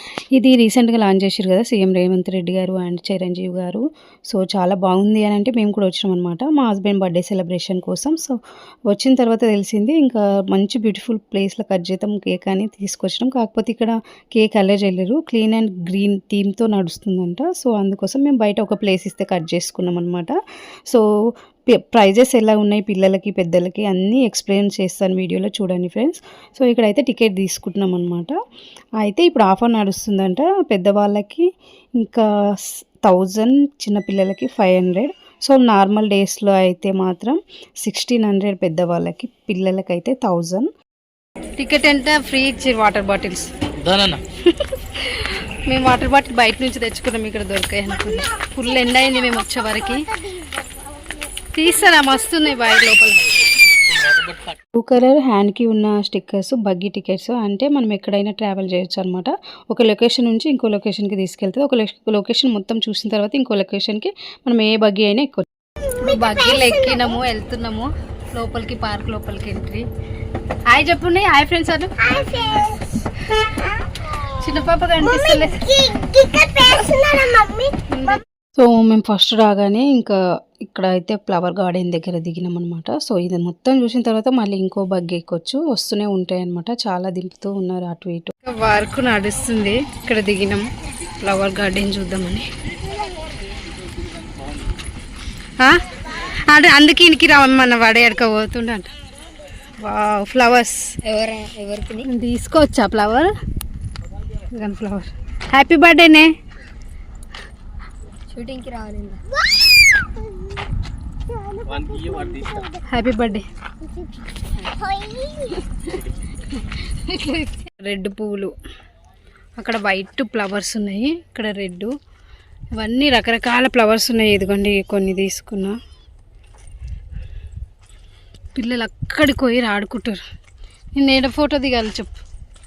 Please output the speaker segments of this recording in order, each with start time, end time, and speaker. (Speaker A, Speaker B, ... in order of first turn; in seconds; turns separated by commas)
Speaker A: 0.3-8.4, Speaker A: 8.9-20.3, Speaker A: 21.7-28.3, Speaker A: 29.0-31.5, Speaker A: 32.0-40.7, Speaker A: 41.5-43.5, Speaker B: 43.8-44.2, Speaker A: 44.5-50.1, Speaker C: 50.3-50.8, Speaker A: 51.5-53.4, Speaker B: 53.9-54.6, Speaker A: 54.7-69.8, Speaker A: 70.7-72.8, Speaker C: 72.2-72.7, Speaker A: 74.1-75.8, Speaker C: 75.4-77.8, Speaker A: 77.9-90.7, Speaker A: 91.2-92.5, Speaker B: 93.6-94.7, Speaker A: 95.6-98.9, Speaker A: 99.8-100.9, Speaker C: 101.0-102.1, Speaker A: 102.0-103.3, Speaker A: 104.5-106.3, Speaker C: 108.3-109.2, Speaker C: 111.3-111.6, Speaker B: 111.6-112.7, Speaker A: 112.9-113.4, Speaker C: 114.5-115.7, Speaker A: 117.1-118.5, Speaker A: 119.6-121.9, Speaker A: 122.8-125.8, Speaker A: 128.5-130.2, Speaker A: 130.9-132.2